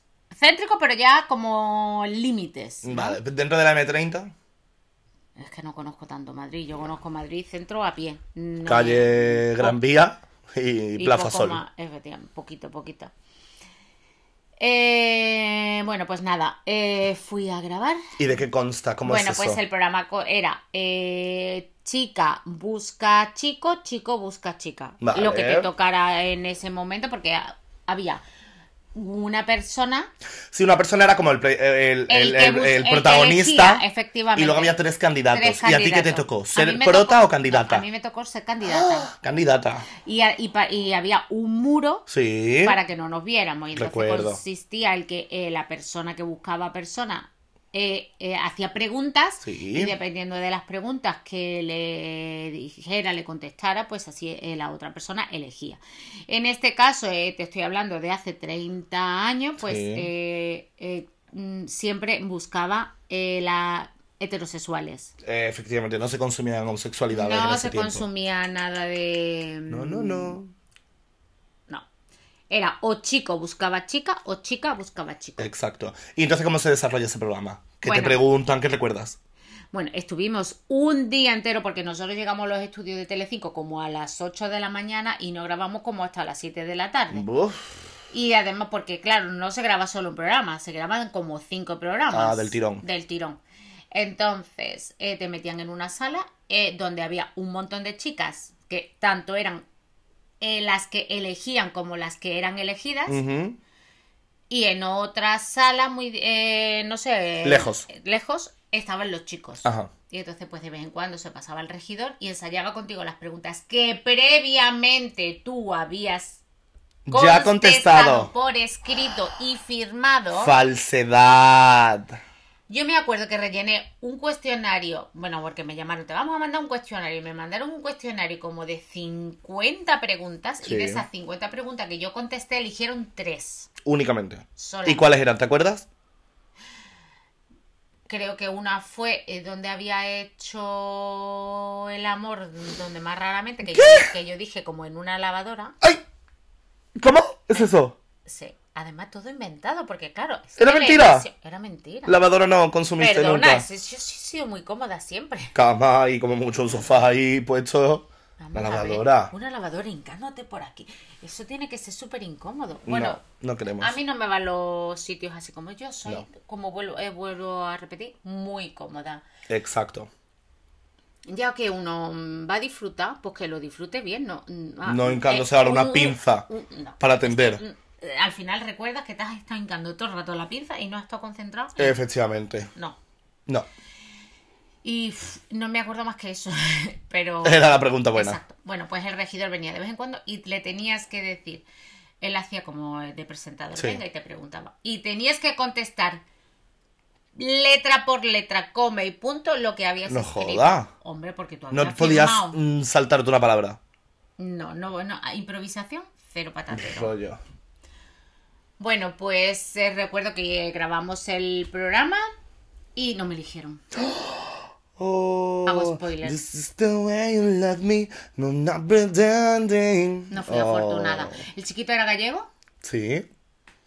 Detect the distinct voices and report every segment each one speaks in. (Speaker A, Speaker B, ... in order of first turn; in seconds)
Speaker A: 0.3-3.2, 5.4-9.8, 11.0-13.1, 14.6-18.1, 19.1-28.2, 28.9-30.1, 32.1-34.8, 35.3-39.1, 40.0-42.1, 42.6-65.1, 67.1-70.4, 72.5-75.5, 77.8-78.2, 79.7-87.3, 88.1-93.4, 93.9-99.7, 100.4-103.2, 104.5-116.4, 117.1-120.5, 122.7-133.7, 134.6-135.1, 138.1-145.8, 148.2-152.2, 153.0-155.6, 158.4-163.2, 163.8-169.2, 171.3-182.0, 184.8-191.7, 192.2-196.2, 197.3-202.6, 204.4-207.1, 208.8-212.3, 213.0-213.8, 215.7-216.4, 220.3-222.5
Speaker B: 2.8-4.3, 8.7-11.6, 18.2-19.6, 25.0-25.7, 30.5-37.9, 38.6-39.9, 42.1-42.8, 43.8-44.4, 49.4-50.0, 59.6-60.1, 65.2-68.0, 69.7-70.5, 75.4-79.2, 87.1-87.8, 92.1-92.8, 103.1-103.6, 107.4-107.9, 109.6-109.9, 117.1-118.3, 120.3-122.2, 130.6-131.1, 133.8-135.9, 143.7-144.1, 147.0-148.0, 150.6-151.3, 152.1-153.7, 155.5-159.3, 162.9-163.9, 169.5-170.1, 174.8-176.5, 177.0-177.6, 181.8-182.7, 187.4-188.4, 193.8-194.0, 200.1-200.9, 201.7-203.8, 206.7-207.4, 214.0-221.4, 222.8-223.3